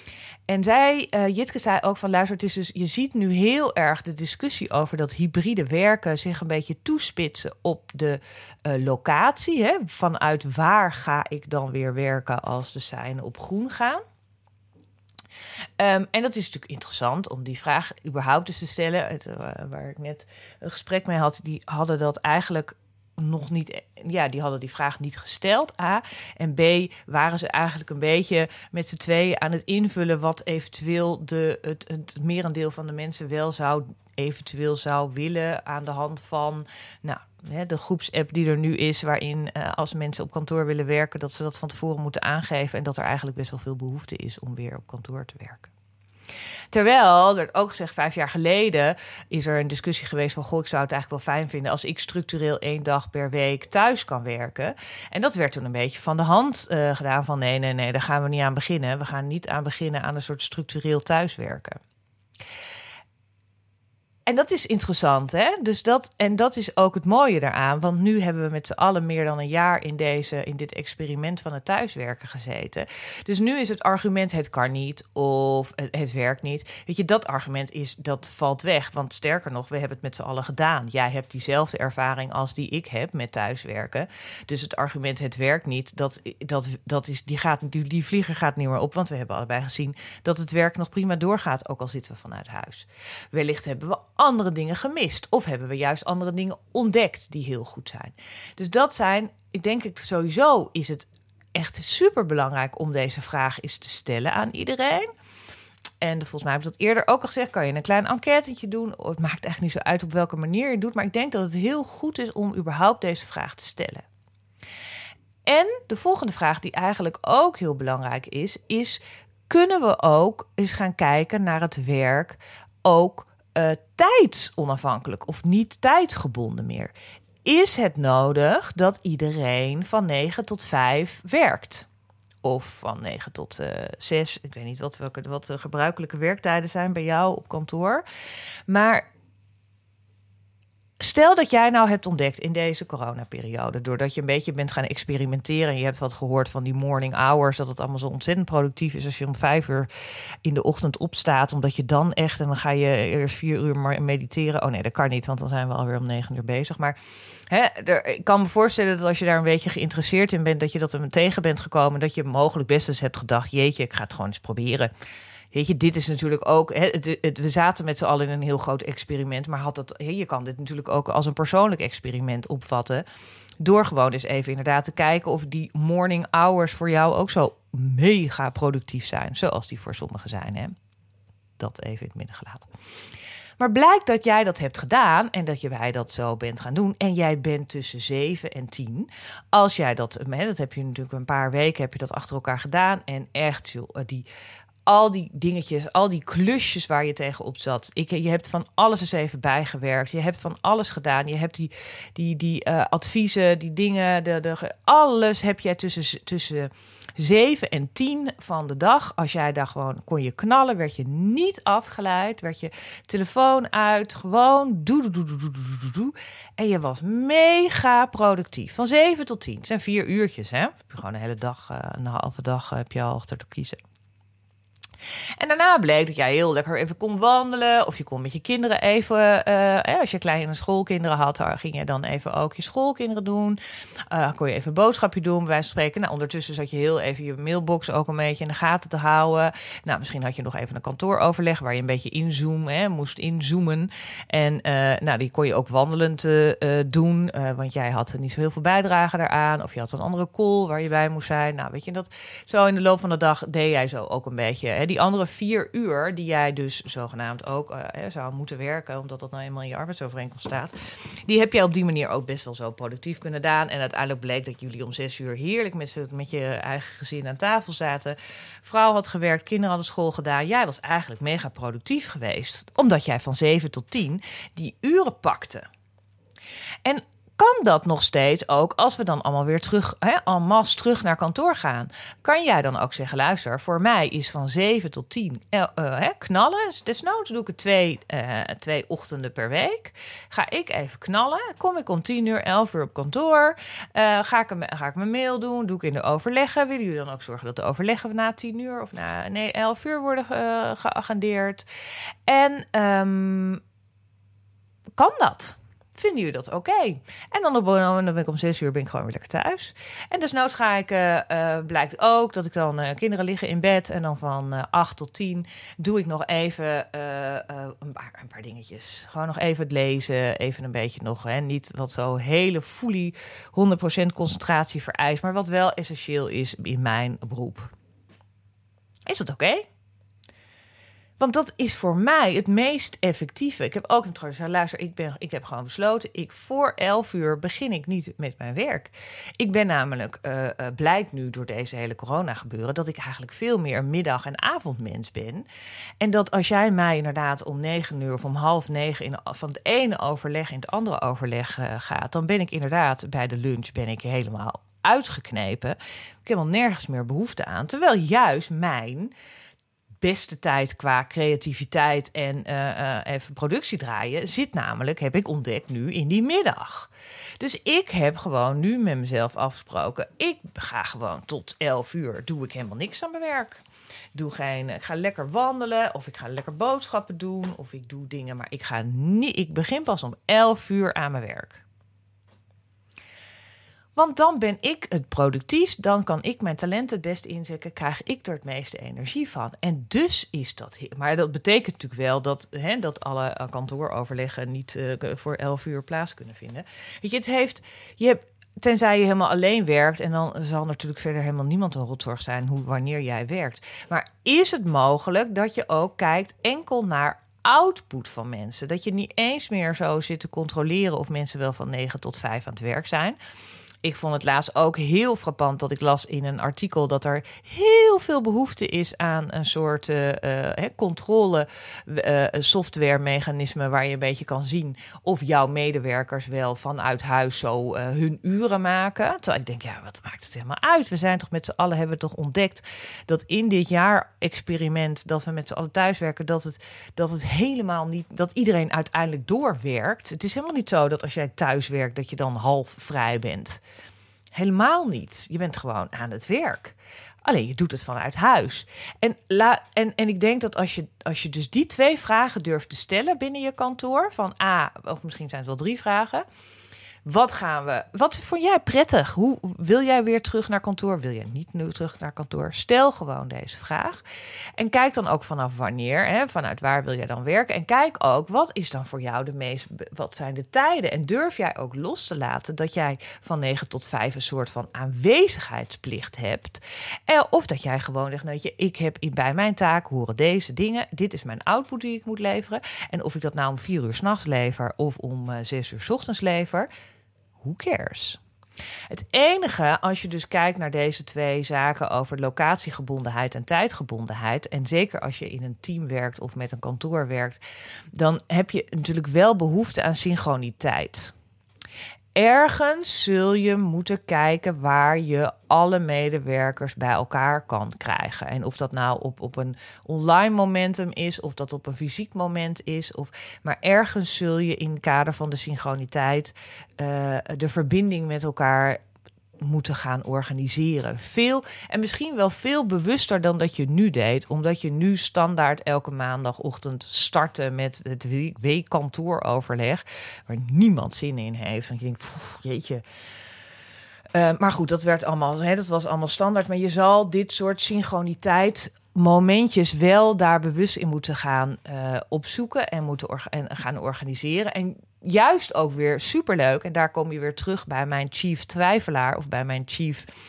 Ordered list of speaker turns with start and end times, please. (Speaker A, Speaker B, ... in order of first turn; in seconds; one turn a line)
Speaker A: 0.5-14.0
Speaker A: 15.8-45.7
Speaker A: 46.7-61.8
Speaker A: 64.3-105.1
Speaker A: 106.0-114.0
Speaker A: 115.5-126.9
Speaker A: 127.4-131.9
Speaker A: 132.4-138.0
Speaker A: 138.7-139.1
Speaker A: 141.0-149.9
Speaker A: 150.4-164.9
Speaker A: 165.5-173.0
Speaker A: 173.6-180.7
Speaker A: 181.6-182.7
Speaker A: 183.6-194.3
Speaker A: 194.8-223.8
Speaker A: 225.4-233.6
Speaker A: 234.1-260.7
Speaker A: 261.2-275.6
Speaker A: 276.8-301.6
Speaker A: 302.3-303.6
Speaker A: 304.9-327.7
Speaker A: 329.1-329.6
Speaker A: 331.2-345.5
Speaker A: 346.0-359.1
Speaker A: 360.0-373.6
Speaker A: 374.1-381.6
Speaker A: 383.9-413.2
Speaker A: 413.8-443.6
Speaker A: 444.3-456.2
Speaker A: 457.0-464.0
Speaker A: 464.6-486.7
Speaker A: 487.4-488.2
Speaker A: 488.9-497.4
Speaker A: 497.9-501.1
Speaker A: 502.1-518.8
Speaker A: 519.4-532.8
Speaker A: 534.1-550.1